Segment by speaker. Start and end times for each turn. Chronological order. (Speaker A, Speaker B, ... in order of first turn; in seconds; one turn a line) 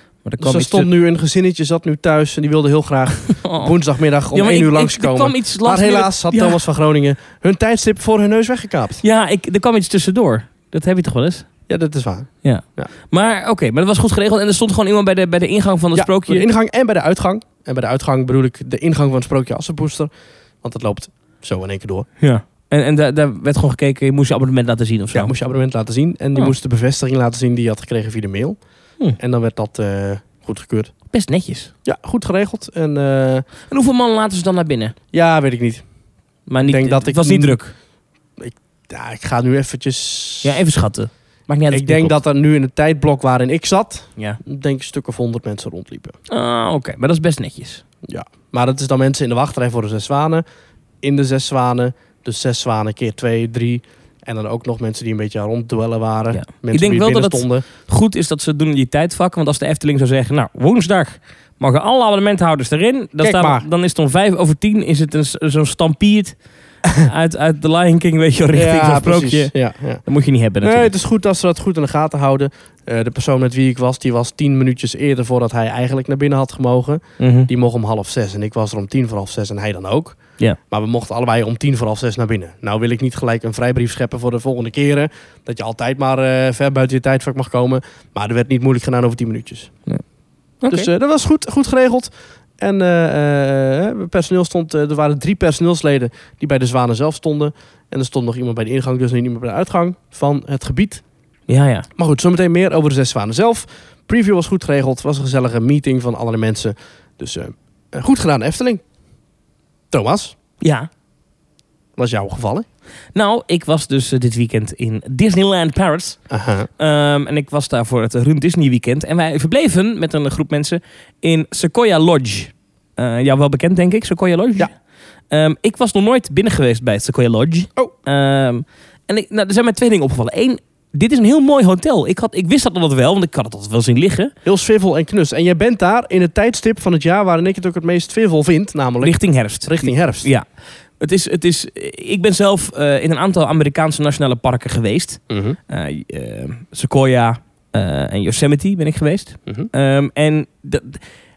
Speaker A: 0.2-0.9
Speaker B: 0.4-9.0
Speaker A: 3.3-3.8
Speaker A: 4.3-6.6
Speaker A: 9.0-11.5
Speaker B: 11.7-12.9
Speaker A: 12.4-16.5
Speaker B: 15.9-20.1
Speaker B: 20.6-22.1
Speaker A: 22.2-25.3
Speaker B: 25.1-28.6
Speaker B: 29.2-30.9
Speaker A: 31.1-31.7
Speaker B: 31.9-33.5
Speaker A: 33.7-35.0
Speaker B: 35.1-35.8
Speaker A: 36.5-37.7
Speaker B: 36.6-37.6
Speaker B: 38.4-40.6
Speaker A: 40.4-42.1
Speaker B: 41.7-46.2
Speaker A: 46.3-47.8
Speaker B: 48.1-50.4
Speaker B: 51.0-57.6
Speaker A: 56.3-66.4
Speaker B: 63.2-63.6
Speaker A: 67.0-69.5
Speaker B: 68.5-70.0
Speaker A: 70.0-70.9
Speaker B: 70.6-80.2
Speaker A: 77.2-77.5
Speaker B: 80.7-89.7
Speaker A: 90.6-90.9
Speaker B: 90.7-101.0
Speaker A: 101.5-101.9
Speaker B: 102.0-108.8
Speaker B: 109.9-110.4
Speaker A: 110.6-110.9
Speaker B: 112.0-112.7
Speaker A: 113.2-116.2
Speaker B: 116.3-116.7
Speaker A: 116.8-124.7
Speaker A: 125.3-134.3
Speaker B: 134.4-140.3
Speaker A: 139.0-140.4
Speaker A: 141.0-151.0
Speaker B: 145.3-145.6